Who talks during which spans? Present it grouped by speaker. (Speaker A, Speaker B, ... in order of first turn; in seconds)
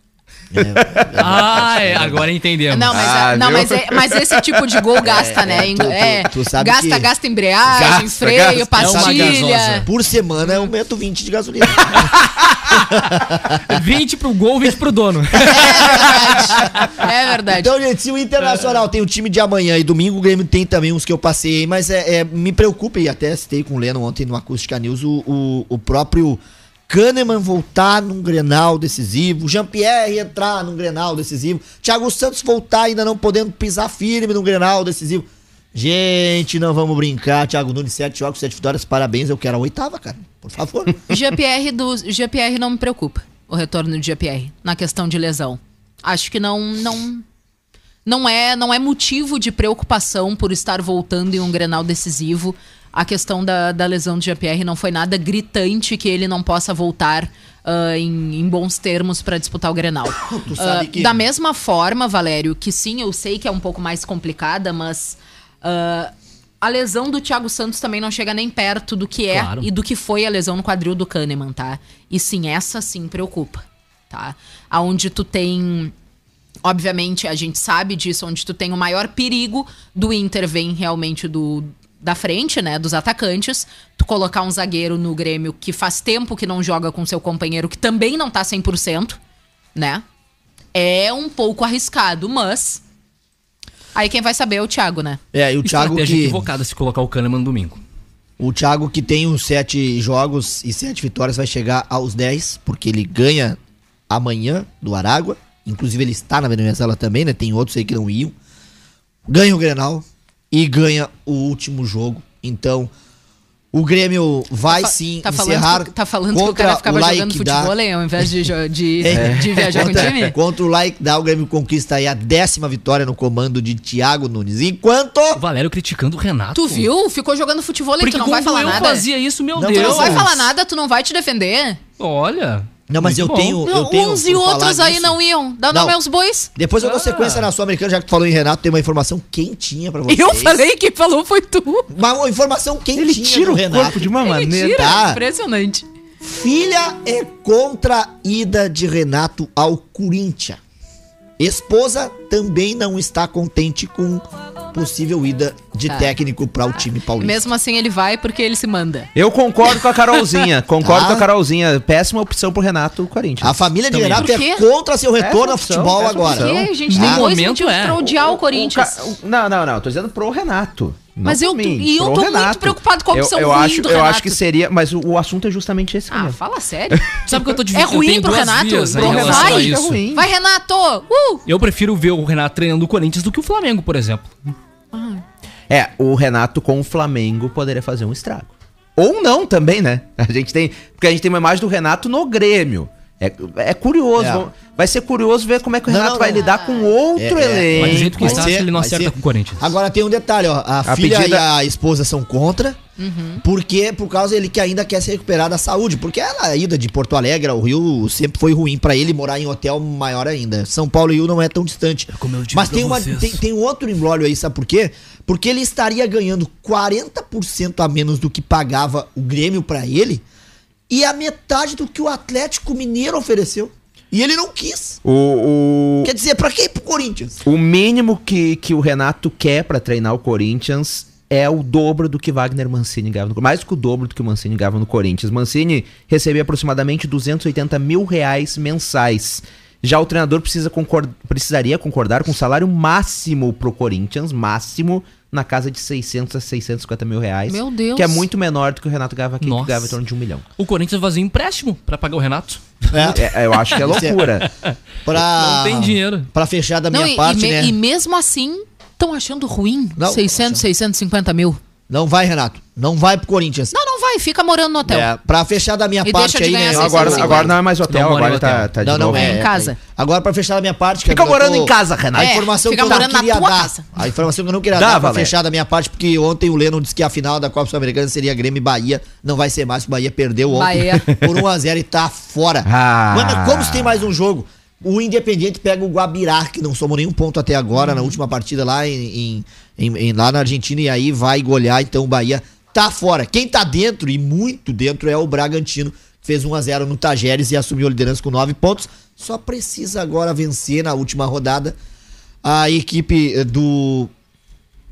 Speaker A: 0.5-2.3, 5.0-7.1, 7.7-8.1, 8.8-12.2, 12.7-13.8, 15.5-16.7, 17.5-41.0, 60.2-61.2, 95.3-96.5, 98.4-103.6, 104.1-108.3, 109.3-112.9, 113.7-117.7, 119.0-125.4, 129.6-130.5, 132.9-135.2, 135.7-136.0, 136.6-140.6, 141.9-144.1, 144.7-145.2, 146.2-150.6, 151.4-157.4, 160.8-161.3, 163.4-167.2, 194.2-194.5, 195.9-196.5, 197.2-202.8, 203.4-220.2, 220.9-225.0, 226.0-227.4, 252.9-253.3, 253.8-254.2, 255.1-257.8, 260.0-260.6, 261.9-263.7, 264.9-267.6, 268.8-301.8, 302.4-304.1
Speaker B: 0.6-1.5, 2.9-4.6, 7.7-8.8, 12.4-12.6, 119.1-120.3, 142.9-145.0, 159.2-164.2, 165.2-166.7, 168.0-176.4, 176.9-177.4, 179.0-180.3, 185.7-198.5, 200.8-201.4, 225.0-226.1, 227.4-250.4, 253.1-254.5, 266.7-269.4, 271.1-272.4, 274.8-275.3, 282.6-284.0
Speaker C: 1.2-3.0, 8.8-9.9, 13.7-16.9, 69.3-69.7, 95.7-97.8, 125.4-126.9, 128.0-130.3, 132.0-133.6, 136.9-137.5, 163.9-164.2, 166.9-168.0, 177.3-180.0, 181.5-184.6, 197.8-199.6, 212.1-213.4, 249.4-249.9, 250.6-253.1, 253.8-254.1, 254.6-256.3, 267.9-268.7
Speaker D: 2.7-9.9, 15.5-17.8, 41.1-47.2, 48.0-75.9, 76.6-89.2, 89.8-90.0, 90.7-92.8, 94.0-95.2, 114.7-120.3, 126.5-129.1, 129.7-131.8, 133.6-136.5, 140.1-141.9, 144.2-145.9, 155.9-156.1, 157.2-159.1, 164.1-164.7, 166.0-169.0, 171.2-174.4, 176.1-177.2, 177.7-181.4, 184.9-185.2, 196.3-197.0, 203.0-203.4, 247.5-248.3, 256.9-261.6, 263.7-265.1, 266.0-267.5, 269.1-269.8, 272.2-273.9, 280.5-281.1, 287.8-288.2